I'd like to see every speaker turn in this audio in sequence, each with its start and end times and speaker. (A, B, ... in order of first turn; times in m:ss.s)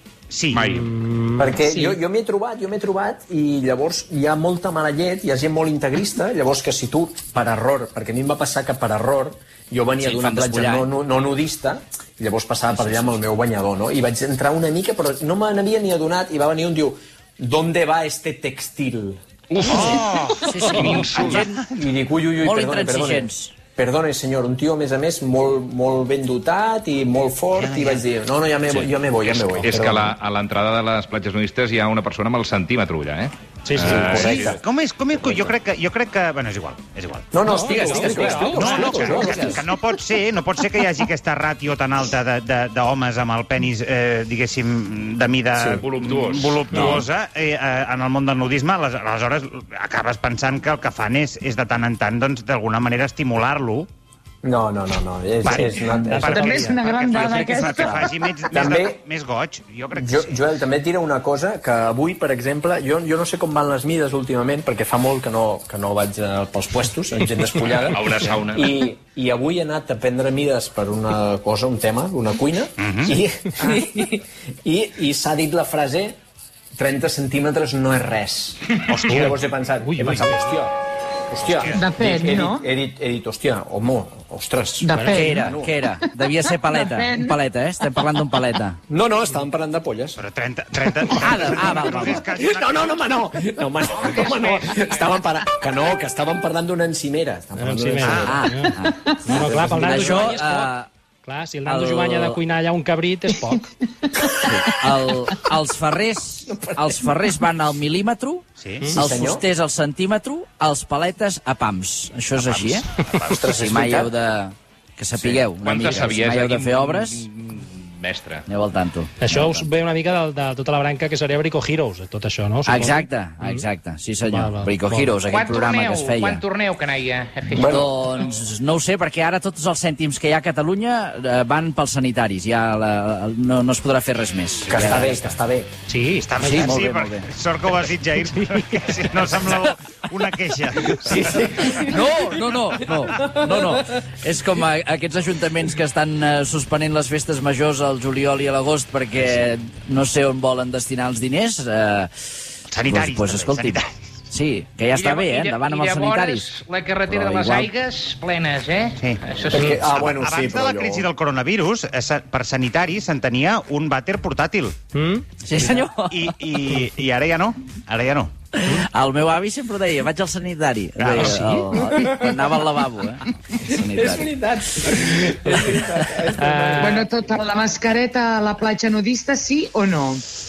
0:00.3-0:00.7 A
0:00.5-0:00.9 B
0:00.6-0:01.9 C
0:01.4-0:20.0 D
0:10.0-0:10.9 E
0:19.6-0:21.6 E
0:19.6-0:21.5 A
0:21.1-0:30.1 D
0:22.4-0:23.6 E
0:27.5-0:28.0 A
0:28.7-0:34.6 B
0:33.6-0:34.4 C
0:33.8-0:34.6 D
0:34.5-0:37.3 A
0:35.2-0:35.5 D
0:37.3-0:39.6 D
0:37.4-0:39.3 C
0:37.7-0:39.6 E
0:38.6-0:53.9 A
0:45.5-0:45.8 D
0:45.8-0:47.0 B
0:54.4-0:56.4 D
0:55.4-1:00.4 A
0:55.5-0:56.8 C
0:56.2-0:58.3 F
0:57.3-0:58.0 E
0:58.5-0:59.0 D
0:59.9-1:16.2 D
1:07.6-1:08.7 B
1:12.8-1:13.1 A
1:16.8-1:20.7 D
1:18.9-1:19.3 A
1:19.0-1:20.5 C
1:21.3-1:25.7 D
1:21.5-1:21.8 A
1:21.7-1:22.6 F
1:24.8-1:25.4 F
1:24.9-1:25.5 C
1:25.1-1:28.8 E
1:26.7-1:27.3 F
1:28.9-1:30.2 D
1:30.2-1:33.0 A
1:30.8-1:31.2 D
1:31.1-1:32.2 E
1:31.9-1:38.4 D
1:34.1-1:34.8 A
1:37.6-1:43.7 C
1:38.0-1:38.3 A
1:38.2-1:40.9 E
1:38.9-1:39.2 F
1:39.4-1:40.3 D
1:41.6-1:42.4 E
1:44.0-1:44.3 F
1:44.3-1:52.8 E
1:46.4-1:47.1 D
1:48.6-1:48.9 A
1:48.9-1:49.4 D
1:52.4-1:53.5 B
1:53.2-1:54.1 D
1:53.4-1:57.2 E
1:55.1-1:58.4 B
1:58.5-1:59.6 E
1:59.2-2:03.6 C
2:02.6-2:06.4 E
2:04.3-2:05.2 C
2:05.2-2:07.8 G
2:07.5-2:07.9 D
2:07.7-2:15.4 E
2:14.7-2:14.9 A
2:14.7-2:15.7 D
2:15.9-2:16.7 C
2:16.2-2:21.4 A
2:16.4-2:17.3 E
2:18.3-2:18.8 C
2:21.0-2:22.0 D
2:21.7-2:32.1 E
2:32.7-2:33.9 A
2:32.9-2:36.4 E
2:34.9-2:40.0 G
2:37.0-2:37.7 E
2:39.5-2:41.1 D
2:39.9-2:44.7 A
2:44.9-2:45.2 C
2:45.4-2:46.5 E
2:45.6-2:48.3 A
2:48.5-2:54.3 E
2:51.0-2:51.6 A
2:51.8-2:52.4 D
2:53.6-2:57.3 D
2:55.5-2:55.8 C
2:56.4-2:57.1 C
2:56.8-3:00.3 F